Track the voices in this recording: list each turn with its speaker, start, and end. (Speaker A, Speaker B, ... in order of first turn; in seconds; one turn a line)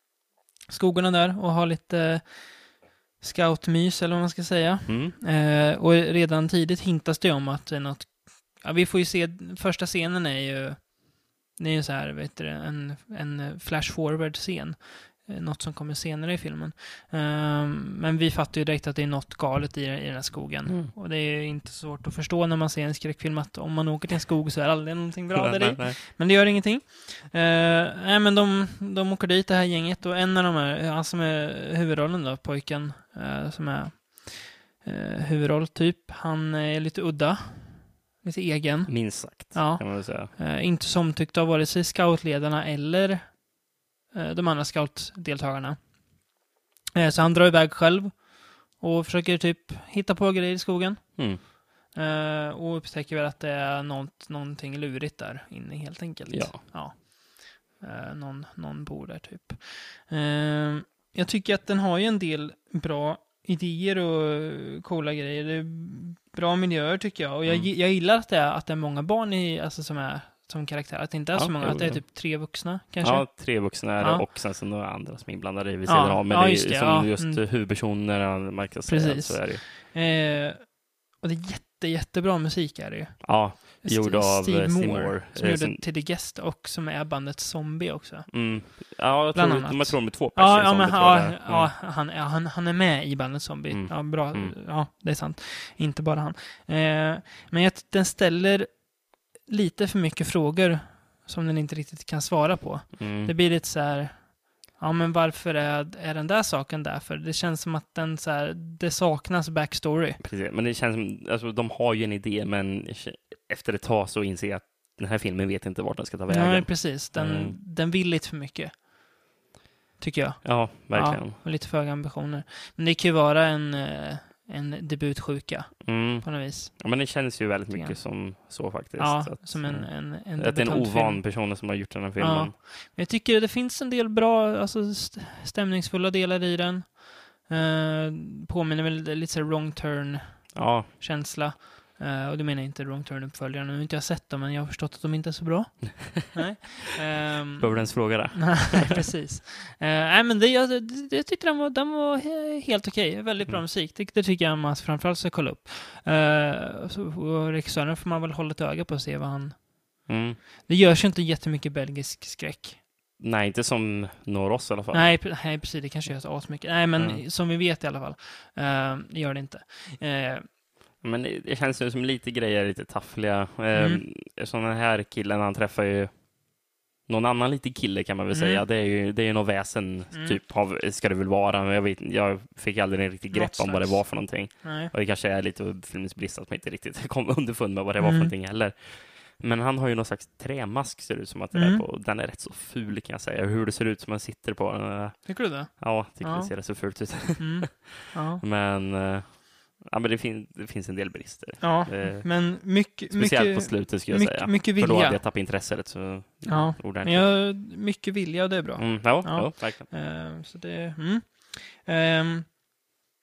Speaker A: 0.7-43.4
Speaker B: 4.9-5.2
Speaker B: 20.6-20.9
Speaker B: 25.3-26.0
Speaker B: 38.9-40.3
Speaker A: 44.1-45.8
Speaker A: 46.9-74.2
Speaker B: 56.3-56.6
Speaker B: 71.3-79.6
Speaker A: 75.8-77.4
Speaker A: 78.9-110.2
Speaker B: 83.2-85.8
Speaker B: 88.3-91.7
Speaker B: 93.7-94.5
Speaker B: 103.0-103.3
Speaker B: 110.2-117.6
Speaker A: 116.3-118.9
Speaker A: 120.0-127.1
Speaker B: 120.4-121.4
Speaker B: 125.8-132.5
Speaker A: 127.7-128.4
Speaker A: 128.9-160.1
Speaker B: 140.5-140.9
Speaker B: 147.6-149.0
Speaker B: 160.1-160.4
Speaker A: 160.6-162.8
Speaker B: 163.2-165.2
Speaker A: 164.9-170.5
Speaker B: 166.9-167.2
Speaker B: 171.0-176.3
Speaker A: 173.7-174.0
Speaker B: 177.0-207.3
Speaker A: 178.3-178.6
Speaker A: 180.1-180.4
Speaker A: 183.3-184.9
Speaker A: 188.0-188.3
Speaker A: 191.5-191.8
Speaker A: 195.2-198.4
Speaker A: 201.6-205.2
Speaker A: 206.4-212.5
Speaker B: 208.8-209.9